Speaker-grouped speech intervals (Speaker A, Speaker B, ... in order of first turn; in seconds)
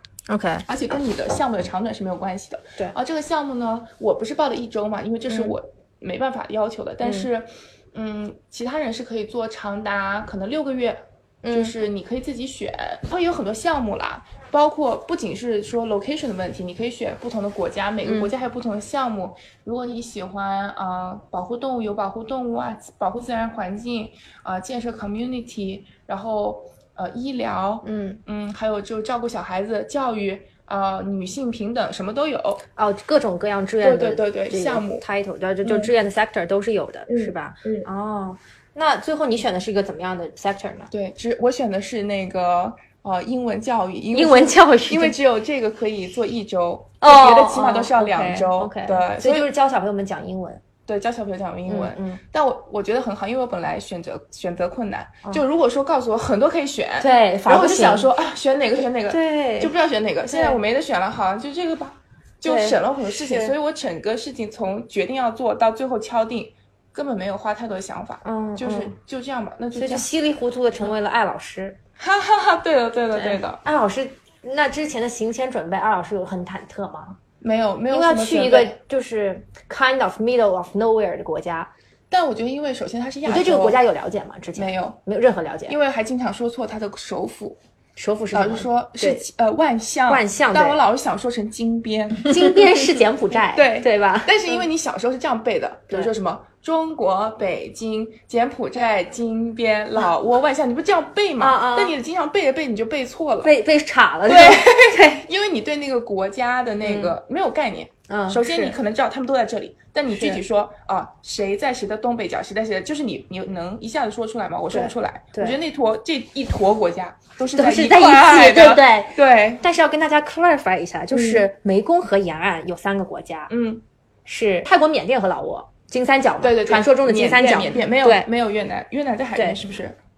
Speaker A: 0.3-0.7, 5.3-5.5, 7.0-7.3, 11.4-11.7, 18.1-18.3, 27.8-28.2, 32.8-40.9, 44.1-45.1, 47.0-50.6, 51.7-52.2, 57.0-58.1, 59.1-59.7, 60.3-60.6, 62.4-63.5, 68.2-68.9, 69.7-71.8, 73.1-77.2, 77.9-81.7, 83.2-85.8, 88.0-89.2, 90.1-90.8, 92.3-94.6, 101.4-102.0, 103.4-105.2, 106.8-107.2, 108.1-108.8, 110.1-110.4, 114.7-115.6, 117.5-123.5, 124.2-128.3
Speaker B: 0.7-32.6, 33.8-35.0, 35.6-35.9, 37.1-37.8, 40.9-49.5, 50.9-70.1, 72.0-73.6, 77.4-78.8, 82.1-83.8, 84.5-85.0, 85.7-87.6, 88.3-103.5, 104.2-119.6, 121.1-121.5, 123.5-123.8, 126.4-130.0